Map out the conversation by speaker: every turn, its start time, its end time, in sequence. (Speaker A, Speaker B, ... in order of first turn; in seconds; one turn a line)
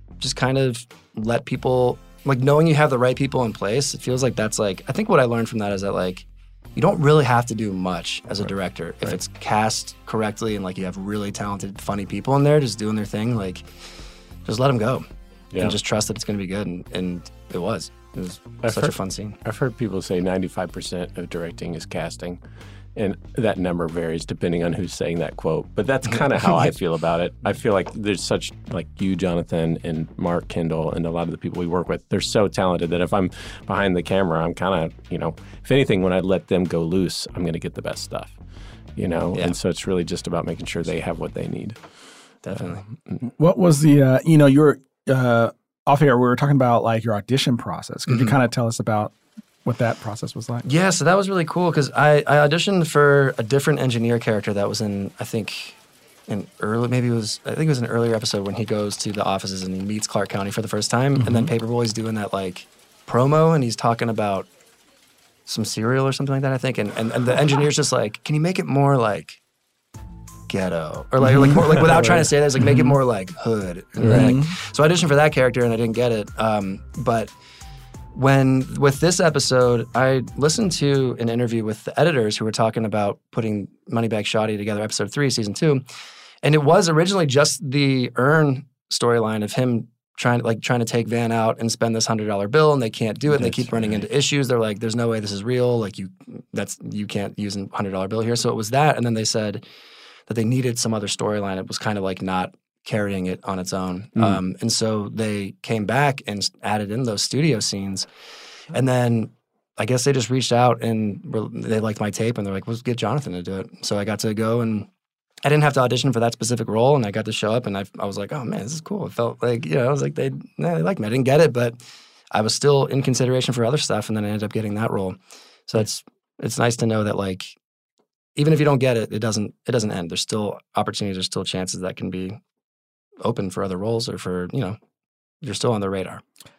Speaker A: 0.2-13.7
Speaker A: 14.4-15.0
Speaker A: 15.6-19.4
Speaker B: 18.6-22.4
Speaker B: 22.9-38.4
Speaker A: 26.1-26.7
Speaker B: 39.0-43.3
Speaker A: 42.4-42.8
Speaker C: 43.4-49.1
Speaker A: 48.1-48.3
Speaker C: 49.6-50.6
Speaker A: 50.6-64.5
Speaker A: 65.5-69.4
Speaker A: 70.5-77.3
Speaker C: 71.2-71.8
Speaker B: 71.9-72.2
Speaker B: 74.0-74.3
Speaker C: 74.0-74.5
Speaker A: 78.1-85.8
Speaker A: 86.4-99.6
Speaker B: 93.3-94.1
Speaker A: 100.3-108.1
Speaker A: 108.7-114.9
Speaker A: 115.4-125.2
Speaker A: 125.7-127.5
Speaker A: 128.3-132.4
Speaker A: 133.2-134.8
Speaker A: 135.4-136.2